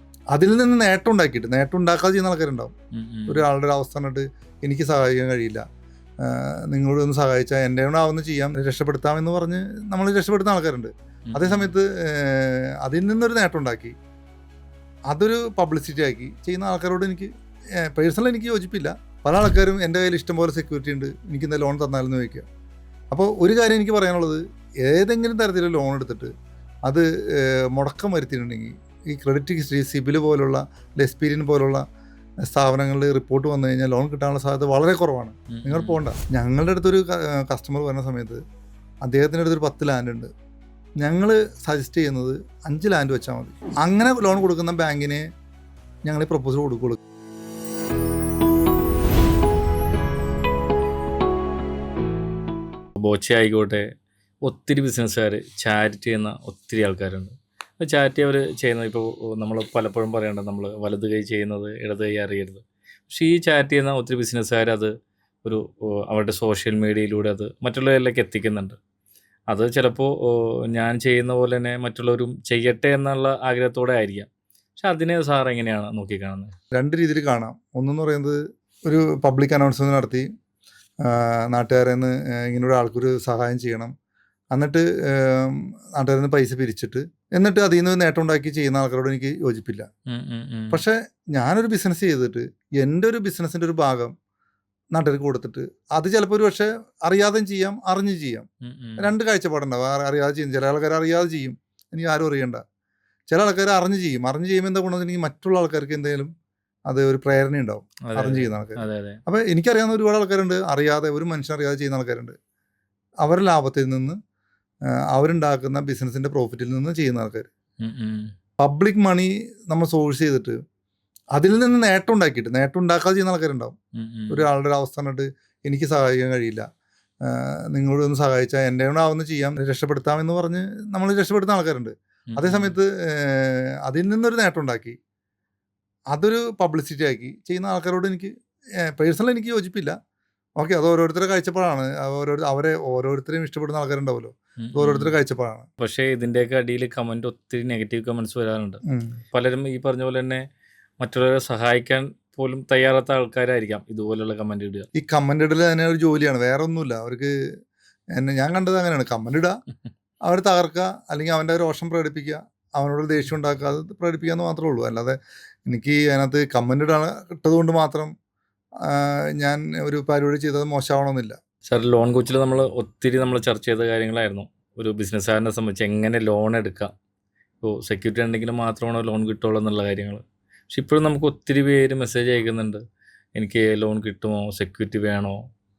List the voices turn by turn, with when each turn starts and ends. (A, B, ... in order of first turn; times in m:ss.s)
0:00.3-0:02.7 A
0:02.9-0:03.4 B
0:03.3-0:05.6 A
0:06.2-0:14.0 A
0:11.3-0:11.7 B
0:15.1-0:17.3 A
0:17.8-0:22.5 A
0:23.1-0:26.3 A
0:26.9-0:31.8 A
0:32.5-0:38.4 A
0:35.5-0:36.0 B
0:39.0-0:40.3 A
0:41.0-0:45.2 A
0:46.0-0:47.0 A
0:53.0-0:53.9 B
0:54.4-1:04.9 B
1:05.4-1:08.8 B
1:09.5-1:16.5 B
1:16.8-1:20.3 A
1:21.0-1:23.9 A
1:24.5-1:29.9 A
1:30.1-1:30.8 B
1:30.7-1:34.1 A
1:35.0-1:38.5 A
1:38.6-1:39.1 B
1:39.0-1:42.6 A
1:43.3-1:46.3 A
1:46.9-1:52.4 A
1:48.1-1:49.2 B
1:53.2-1:54.2 A
1:55.1-1:57.5 A
1:57.8-1:58.3 B
1:58.6-2:00.6 A
2:01.3-2:03.8 A
2:04.0-2:04.5 B
2:04.3-2:06.7 A
2:07.3-2:15.0 A
2:12.3-2:12.8 B
2:16.1-2:18.3 A
2:18.8-2:20.0 A
2:20.6-2:25.7 A
2:24.7-2:25.2 B
2:25.8-2:28.8 B
2:28.9-2:29.2 A
2:29.3-2:30.4 B
2:31.0-2:34.9 B
2:35.0-2:37.3 A
2:38.2-2:39.6 A
2:40.3-2:48.1 A
2:48.9-2:51.4 A
2:51.7-2:56.9 B
2:57.6-3:02.8 B
3:03.4-3:05.4 B